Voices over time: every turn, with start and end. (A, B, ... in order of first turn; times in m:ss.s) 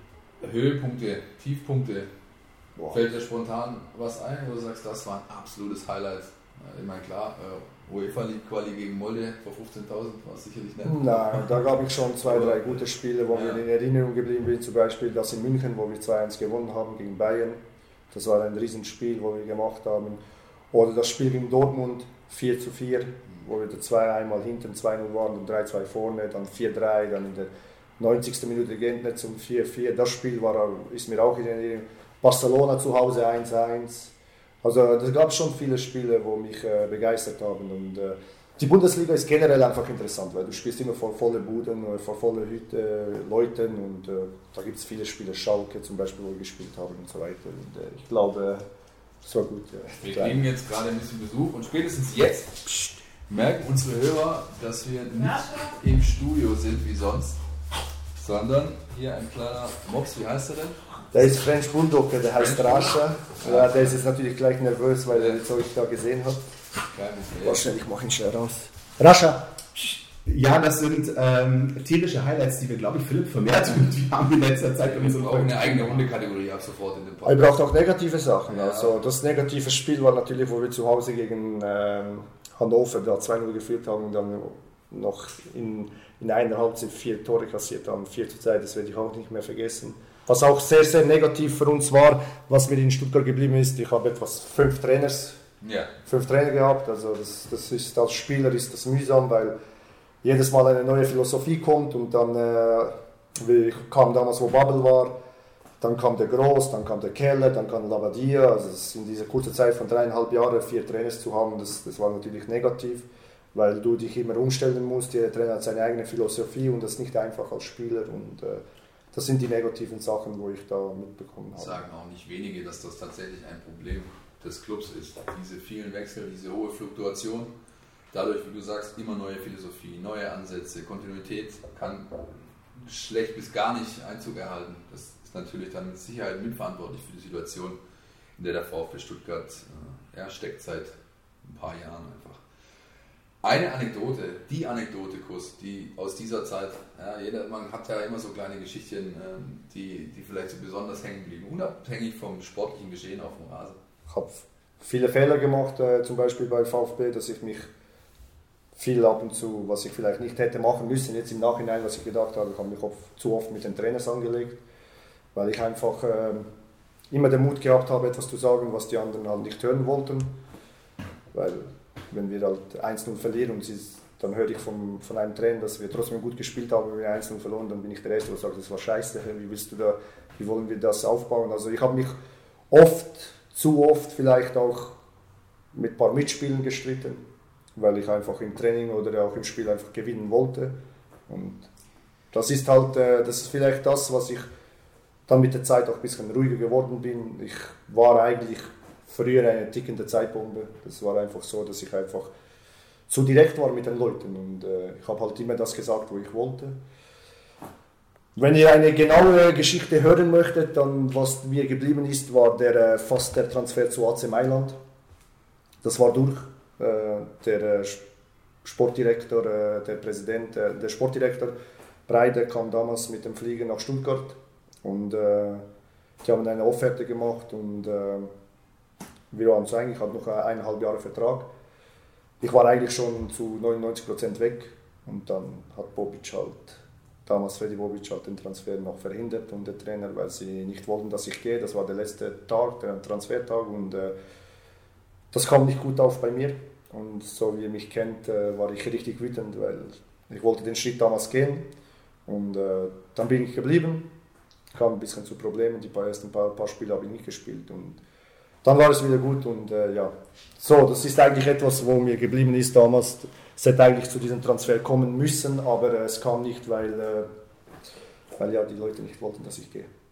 0:00.4-0:02.1 A
0:02.8-0:03.0 B
0:02.9-0:11.6 A
0:10.8-0:20.2 B
0:12.2-0:12.7 A
0:13.3-0:13.6 A
0:20.7-0:48.6 B
0:49.2-0:50.4 B
0:50.0-0:57.4 A
0:58.2-1:01.3 A
1:01.1-1:06.4 B
1:02.4-1:04.0 A
1:06.9-1:07.7 A
1:07.4-1:10.0 B
1:10.2-1:16.0 C
1:14.8-1:17.6 A
1:17.2-1:35.4 B
1:18.5-1:19.0 A
1:35.6-1:35.9 A
1:36.0-1:39.6 B
1:40.2-1:45.2 B
1:45.8-2:01.8 B
2:01.6-2:07.5 A
2:08.1-2:17.8 A
2:18.4-2:22.4 A
2:23.4-2:33.8 A
2:34.1-2:37.7 B
2:38.8-2:44.6 B
2:45.4-2:46.5 B
2:47.1-2:50.4 B
2:51.3-3:02.2 B
3:02.7-3:05.0 B
3:05.7-3:07.2 B
3:07.8-3:10.8 B
3:11.3-3:11.7 B
3:12.3-3:14.5 B
3:15.3-3:22.3 B
3:23.1-3:26.8 B
3:28.4-3:34.8 B
3:35.8-3:38.0 B
3:38.6-3:41.5 B
3:42.1-3:45.6 B
3:46.2-3:48.3 B
3:49.3-3:51.5 B
3:52.4-4:04.1 B
4:05.3-4:11.7 B
4:12.3-4:14.1 B
4:14.7-4:18.0 B
4:18.6-4:27.3 B
4:28.4-4:29.9 B